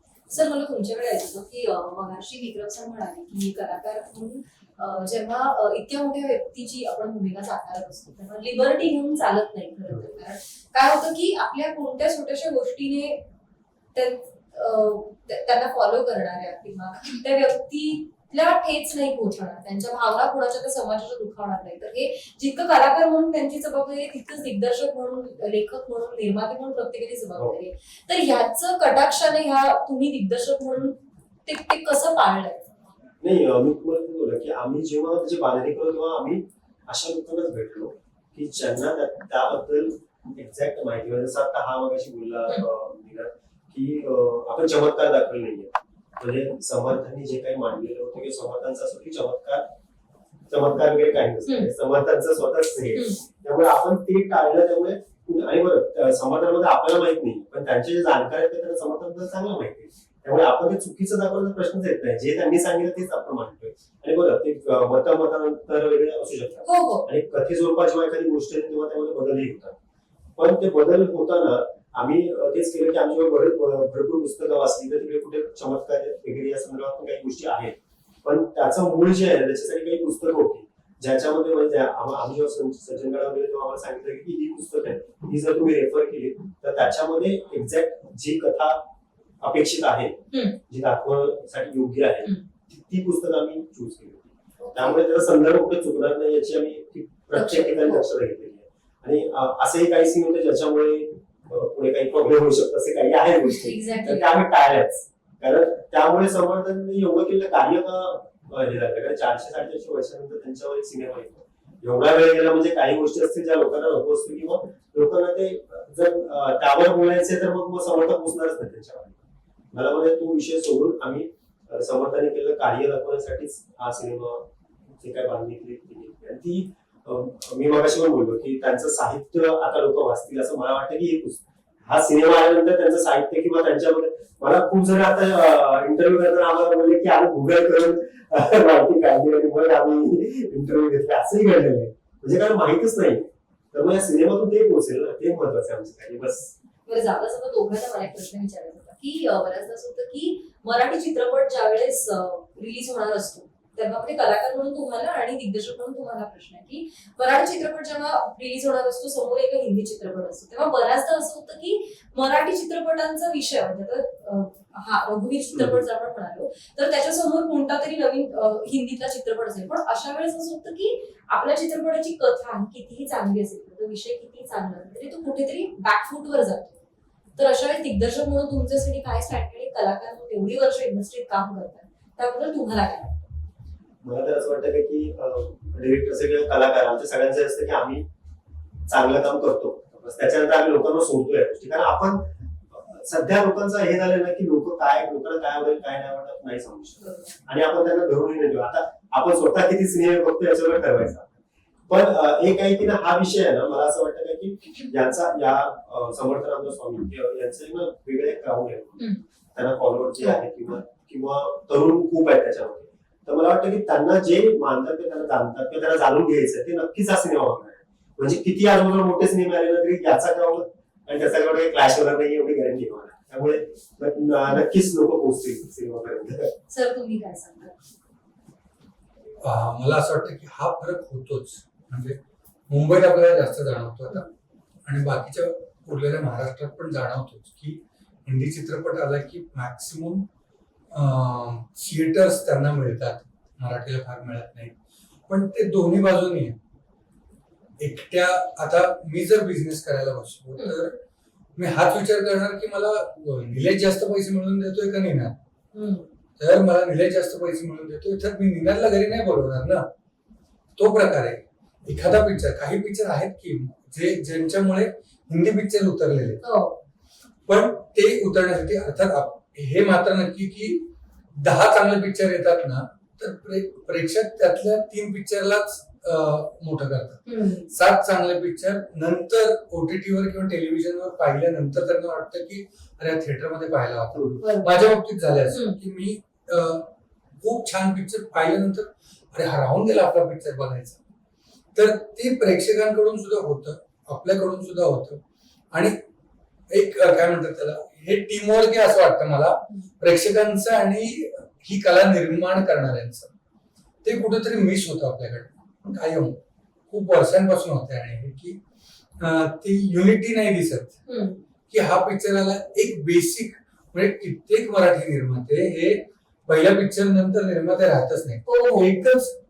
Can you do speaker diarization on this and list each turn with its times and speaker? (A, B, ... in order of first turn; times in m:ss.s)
0:00.3-0:13.2 A
0:14.0-0:32.9 A
0:33.2-0:49.7 B
0:50.5-1:09.8 B
0:51.5-0:51.7 A
0:52.9-0:53.2 A
1:06.6-1:07.1 A
1:10.4-1:28.8 B
1:29.4-1:59.2 B
1:30.3-1:30.6 A
1:34.6-1:35.0 A
1:37.3-1:38.0 A
1:43.4-1:44.3 A
1:59.7-2:04.5 B
2:05.0-2:26.5 B
2:26.9-2:56.8 A
2:57.4-3:03.3 A
3:04.0-3:08.1 B
3:08.9-3:21.3 B
3:17.0-3:17.3 A
3:21.9-3:46.5 B
3:46.7-3:47.8 A
3:49.4-3:52.2 C
3:52.7-3:54.3 C
3:54.8-4:00.3 C
4:00.9-4:04.8 C
4:05.3-4:06.6 C
4:07.8-4:11.0 C
4:10.6-4:10.8 A
4:11.6-4:15.4 C
4:15.7-4:16.1 A
4:16.4-4:19.9 C
4:20.8-4:26.4 C
4:26.4-4:26.8 A
4:27.5-4:46.9 C
4:37.2-4:37.7 A
4:44.4-4:44.8 A
4:45.5-4:45.8 A
4:47.4-4:51.0 C
4:51.8-4:55.2 C
4:55.7-4:56.0 C
4:56.7-5:03.3 C
5:04.0-5:08.6 C
5:09.2-5:11.0 C
5:11.1-5:11.4 A
5:11.7-5:19.4 C
5:18.5-5:19.0 A